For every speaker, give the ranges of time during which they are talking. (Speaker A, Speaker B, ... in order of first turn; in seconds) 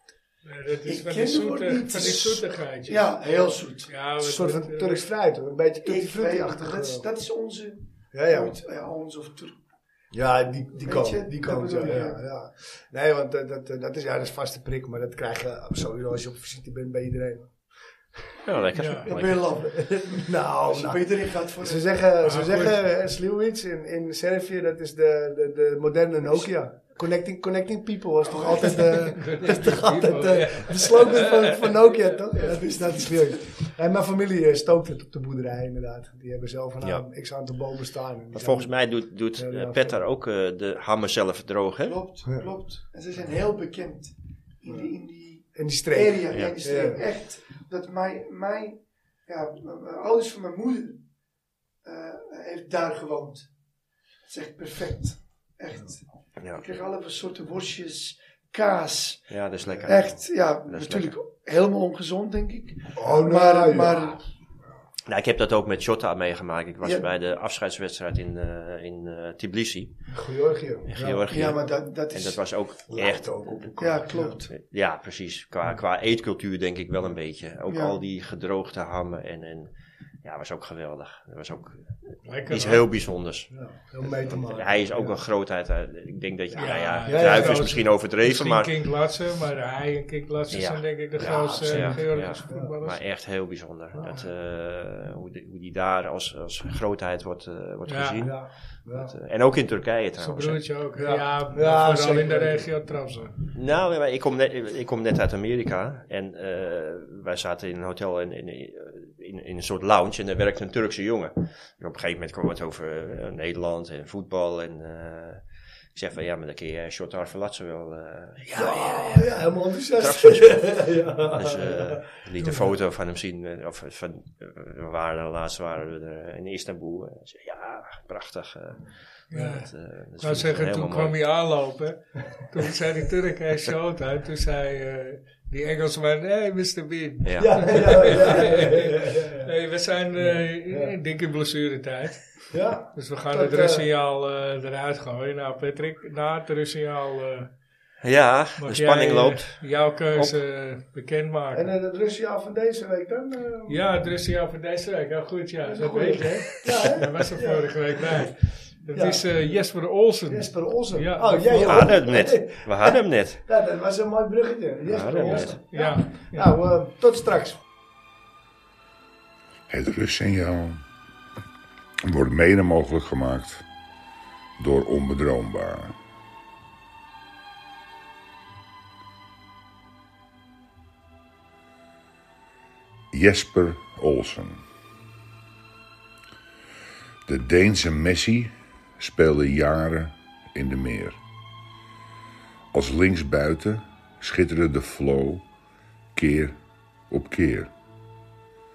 Speaker A: 0.5-3.2, 3.9-5.0, 18.8-19.1, 22.2-22.8, 29.0-32.2, 82.2-82.8, 86.5-93.0, 97.9-98.2, 100.2-103.3, 129.3-147.5, 148.6-151.7, 153.7-161.8, 165.2-166.5
Speaker B: 0.9-3.9, 5.8-9.6, 10.8-12.2, 19.1-19.9, 20.7-21.9, 28.2-29.1, 32.4-33.1, 41.8-51.0, 51.8-53.5, 54.2-64.3, 66.8-67.1, 71.3-72.4, 73.8-74.5, 77.7-78.0
Speaker C: 4.2-7.0, 8.1-8.6, 10.1-17.6, 19.3-40.0, 42.2-42.5, 44.7-44.9, 45.4-47.1, 59.7-60.0, 63.0-64.2, 70.1-71.5, 72.9-74.4, 83.5-85.2, 87.0-87.8, 91.2-92.7, 93.9-94.3, 98.2-99.1, 101.0-102.8, 118.5-122.5, 137.4-139.5, 140.2-140.9, 142.5-143.9, 151.5-153.8, 155.6-158.3, 158.9-159.3, 160.3-167.6
Speaker D: 18.4-19.5, 38.3-42.0, 59.3-61.1, 65.1-70.1, 70.9-79.7, 80.2-83.5, 84.0-88.8, 90.5-100.7, 103.5-119.3, 120.0-131.2, 137.2-138.2, 148.0-150.4, 161.6-163.4, 164.9-165.6
Speaker E: 169.7-170.8, 172.1-173.6, 174.6-176.0, 183.1-184.6, 187.3-191.2, 192.7-195.4, 196.2-196.6, 197.1-197.7